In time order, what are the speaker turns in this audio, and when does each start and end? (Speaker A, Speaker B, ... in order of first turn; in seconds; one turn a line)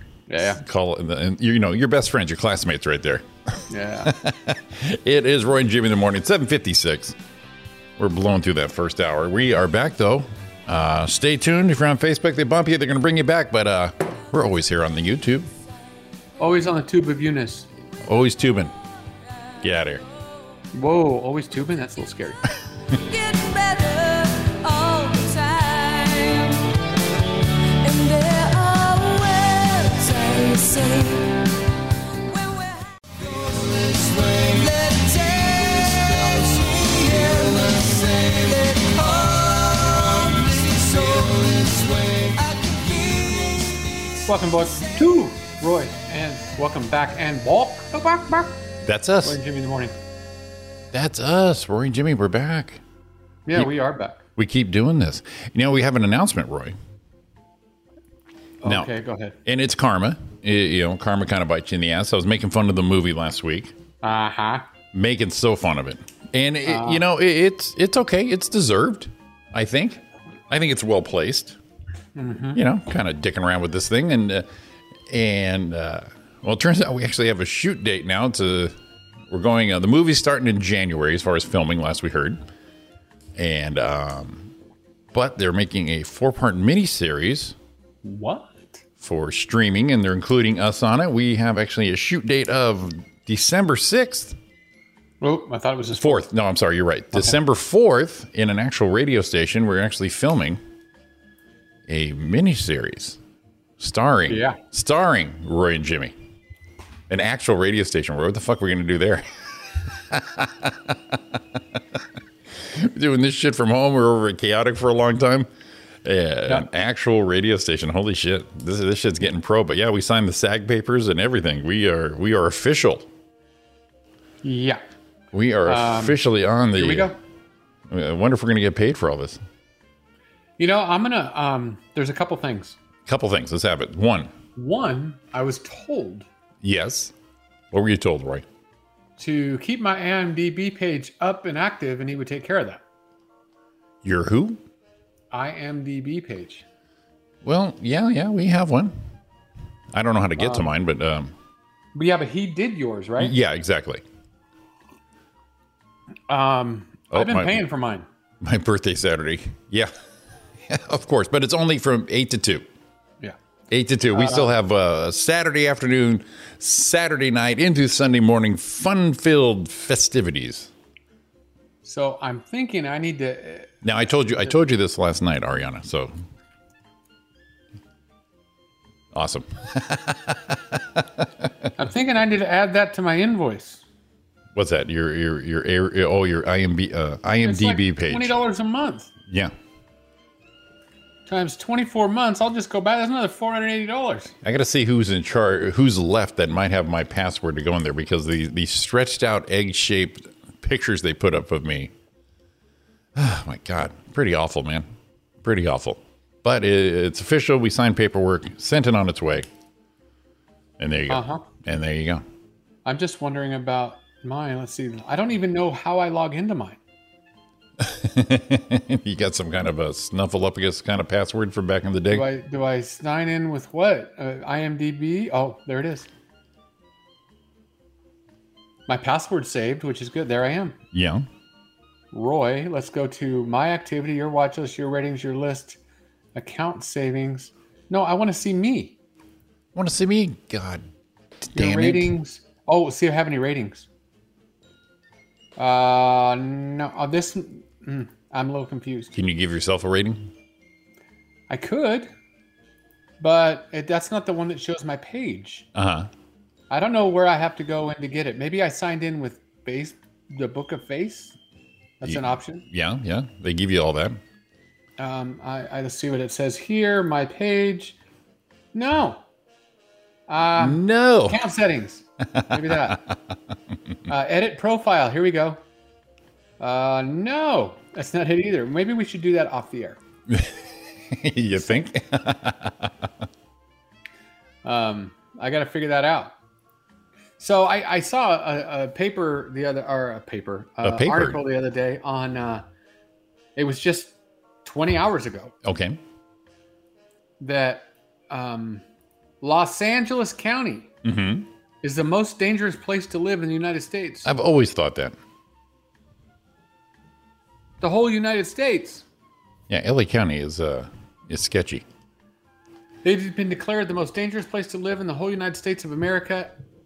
Speaker A: 0.3-0.6
Speaker B: 0.5-3.3
Speaker A: 3.7-4.1
Speaker B: 4.0-7.2
Speaker B: 8.0-15.5
Speaker A: 16.4-17.7
Speaker B: 18.0-18.7
Speaker B: 19.6-20.0
Speaker A: 20.7-22.4
Speaker C: 22.9-26.6
Speaker C: 27.8-31.5
Speaker C: 32.2-43.8
Speaker A: 44.3-48.6
Speaker B: 48.8-49.4
Speaker A: 49.2-49.9
Speaker B: 50.9-52.8
Speaker A: 53.5-54.2
Speaker B: 54.4-56.8
Speaker A: 58.6-59.4
Speaker B: 58.6-58.9
Speaker B: 59.4-63.7
Speaker A: 64.0-64.7
Speaker B: 64.9-71.6
Speaker A: 66.7-67.0
Speaker A: 72.2-72.6
Speaker B: 72.5-74.5
Speaker B: 75.1-78.7
Speaker B: 79.3-82.4
Speaker B: 83.3-84.5
Speaker B: 85.1-87.5
Speaker A: 88.0-88.8
Speaker B: 89.0-94.3
Speaker A: 95.2-96.2
Speaker B: 96.0-100.6
Speaker B: 101.9-103.2
Speaker B: 103.8-106.1
Speaker A: 104.3-104.6
Speaker B: 107.1-111.2
Speaker B: 112.6-115.5
Speaker B: 116.0-123.1
Speaker A: 124.4-124.8
Speaker B: 125.3-127.1
Speaker A: 125.7-126.2
Speaker A: 126.7-127.2
Speaker B: 127.9-129.4
Speaker A: 130.6-132.8
Speaker B: 133.1-134.3
Speaker A: 134.6-136.2
Speaker B: 136.6-137.1
Speaker B: 137.7-138.4
Speaker A: 139.2-142.8
Speaker B: 144.0-144.6
Speaker A: 145.3-146.6
Speaker B: 147.4-148.9
Speaker B: 149.9-151.3
Speaker A: 150.4-150.7
Speaker A: 151.9-153.3
Speaker B: 153.2-154.0
Speaker A: 156.3-158.1
Speaker B: 157.1-157.6
Speaker B: 158.4-159.9
Speaker B: 160.6-162.7
Speaker B: 163.7-170.7
Speaker A: 164.1-164.5
Speaker A: 171.8-173.7
Speaker B: 173.8-176.1
Speaker B: 179.1-181.5
Speaker A: 181.8-183.8
Speaker B: 184.5-188.3
Speaker A: 187.4-189.1
Speaker B: 189.3-189.5
Speaker A: 191.2-194.3
Speaker B: 194.4-201.9
Speaker B: 203.1-204.9
Speaker B: 205.4-209.5
Speaker B: 210.8-212.2
Speaker A: 211.1-211.5
Speaker A: 212.8-216.8
Speaker B: 217.8-222.3
Speaker A: 222.1-226.1
Speaker A: 228.9-230.8
Speaker B: 230.9-231.2
Speaker A: 232.1-235.8
Speaker A: 236.3-238.9
Speaker B: 239.7-240.8
Speaker B: 241.4-242.1
Speaker A: 241.5-243.8
Speaker A: 245.6-249.1
Speaker B: 249.1-250.3
Speaker A: 251.5-252.1
Speaker A: 253.2-255.7
Speaker B: 255.7-256.1
Speaker A: 256.7-261.3
Speaker A: 262.0-262.6
Speaker B: 262.0-264.2
Speaker A: 265.0-267.9
Speaker A: 268.7-269.2
Speaker A: 270.3-273.0
Speaker B: 270.6-271.4
Speaker B: 272.4-273.1
Speaker A: 274.1-275.6
Speaker A: 276.6-280.0
Speaker B: 280.3-280.6
Speaker B: 281.1-282.9
Speaker A: 284.6-286.3
Speaker A: 287.4-292.6
Speaker B: 290.8-291.4
Speaker A: 293.6-295.5
Speaker B: 295.6-296.0
Speaker A: 297.4-298.8
Speaker A: 299.4-300.9
Speaker B: 301.0-301.5
Speaker A: 301.8-304.3
Speaker B: 304.2-305.1
Speaker A: 307.8-309.0
Speaker B: 309.7-311.8
Speaker A: 313.0-316.6